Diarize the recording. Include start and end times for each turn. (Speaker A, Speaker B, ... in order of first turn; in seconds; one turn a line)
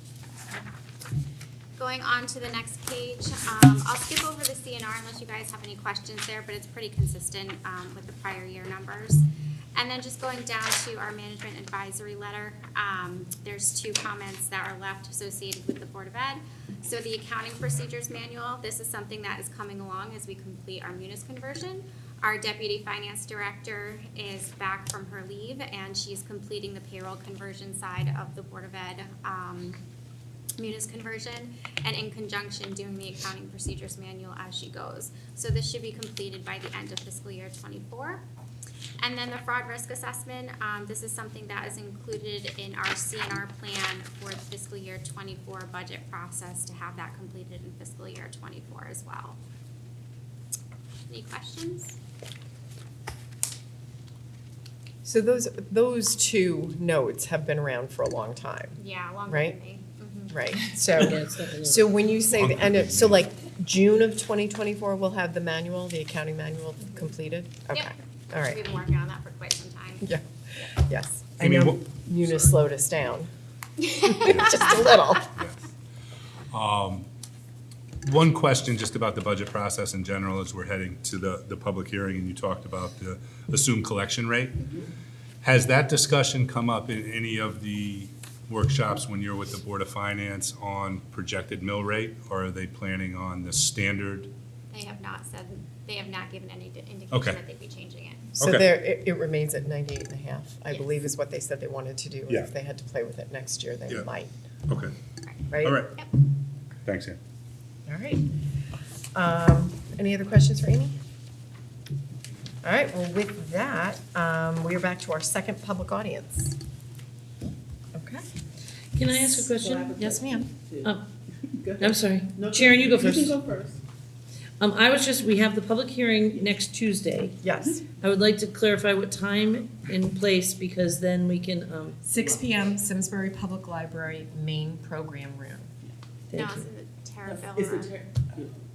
Speaker A: 1.8-9.2
Speaker A: 9.7-29.8
Speaker A: 30.6-38.2
Speaker A: 39.0-49.4
Speaker A: 51.1-52.0
Speaker B: 55.0-59.6
Speaker A: 58.8-60.4
Speaker B: 60.3-68.6
Speaker C: 60.9-61.8
Speaker D: 62.4-63.1
Speaker A: 67.7-70.1
Speaker B: 70.0-73.3
Speaker D: 71.4-72.5
Speaker B: 74.0-75.3
Speaker D: 76.5-77.1
Speaker D: 78.0-84.7
Speaker D: 85.4-94.3
Speaker A: 94.7-98.3
Speaker D: 97.1-97.4
Speaker D: 98.4-98.7
Speaker B: 98.4-104.3
Speaker A: 100.7-101.0
Speaker D: 104.7-104.9
Speaker B: 105.5-105.8
Speaker D: 105.6-106.0
Speaker D: 106.8-107.2
Speaker B: 107.9-108.2
Speaker B: 109.1-111.0
Speaker B: 112.6-116.5
Speaker B: 117.9-118.2
Speaker C: 118.9-121.0
Speaker E: 119.4-121.0
Speaker E: 121.5-123.8
Speaker C: 121.8-123.3
Speaker C: 124.6-127.4
Speaker B: 127.4-127.8
Speaker C: 128.0-132.0
Speaker B: 132.0-135.7
Speaker E: 132.2-132.5
Speaker C: 136.3-136.7
Speaker A: 136.3-137.9
Speaker E: 137.2-138.6